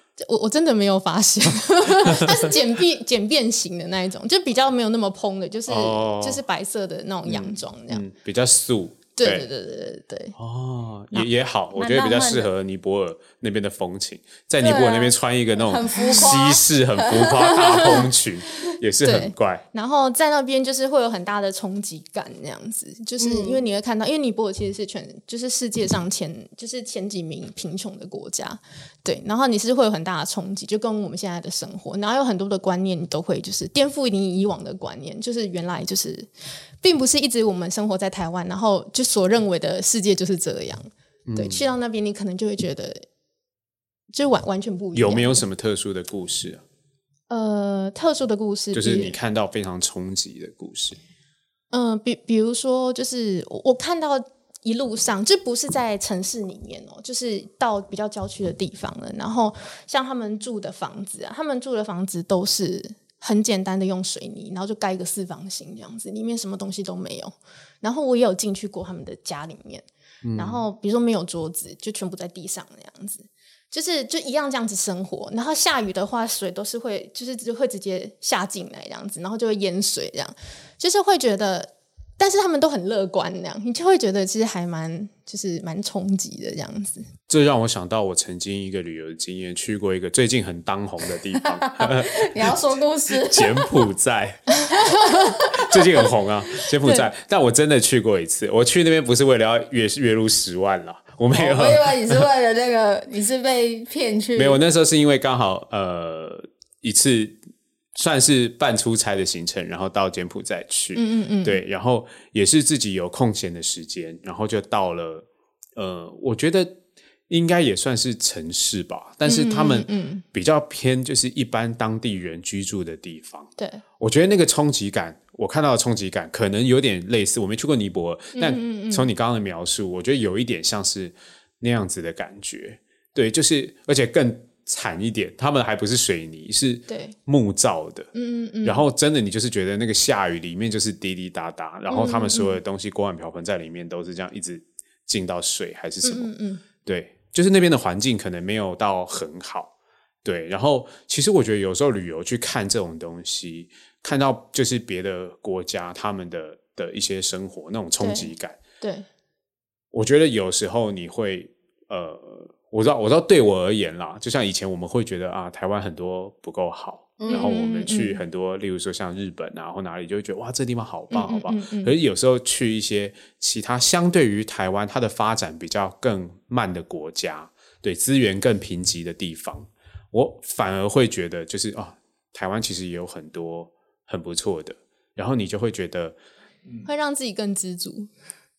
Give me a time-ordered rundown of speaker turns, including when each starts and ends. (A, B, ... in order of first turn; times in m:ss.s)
0:00.2-0:08.0 A
0:01.8-0:02.5 B
0:05.7-0:06.4 B
0:07.3-0:09.5 B
0:09.2-0:10.4 A
0:10.4-0:19.6 B
0:11.8-0:12.5 C
0:14.6-0:18.0 C
0:17.8-0:18.0 A
0:19.0-0:36.3 A
0:23.2-0:23.6 C
0:36.8-0:43.0 A
0:41.3-0:41.6 B
0:44.1-0:45.4 A
0:45.0-0:46.6 B
0:47.3-0:49.2 A
0:48.7-0:51.0 B
0:51.7-1:27.1 A
1:10.2-1:10.6 B
1:27.3-1:32.6 B
1:31.4-1:33.9 C
1:33.1-1:42.3 B
1:34.6-1:35.4 A
1:35.3-1:36.0 C
1:41.3-1:44.6 C
1:44.4-1:47.4 B
1:48.0-1:56.8 B
1:50.9-1:51.6 A
1:57.3-2:18.1 B
1:59.3-2:00.2 A
2:03.6-2:03.8 A
2:08.4-2:09.1 A
2:16.9-2:17.2 A
2:18.1-2:18.9 A
2:18.6-2:26.3 B
2:21.9-2:22.6 A
2:26.0-2:26.6 A
2:26.8-2:29.7 B
2:30.2-2:38.6 B
2:38.0-2:39.1 A
2:39.9-3:06.2 B
2:47.2-2:47.5 C
2:47.3-2:48.2 A
2:51.1-2:51.9 A
3:06.8-3:08.1 A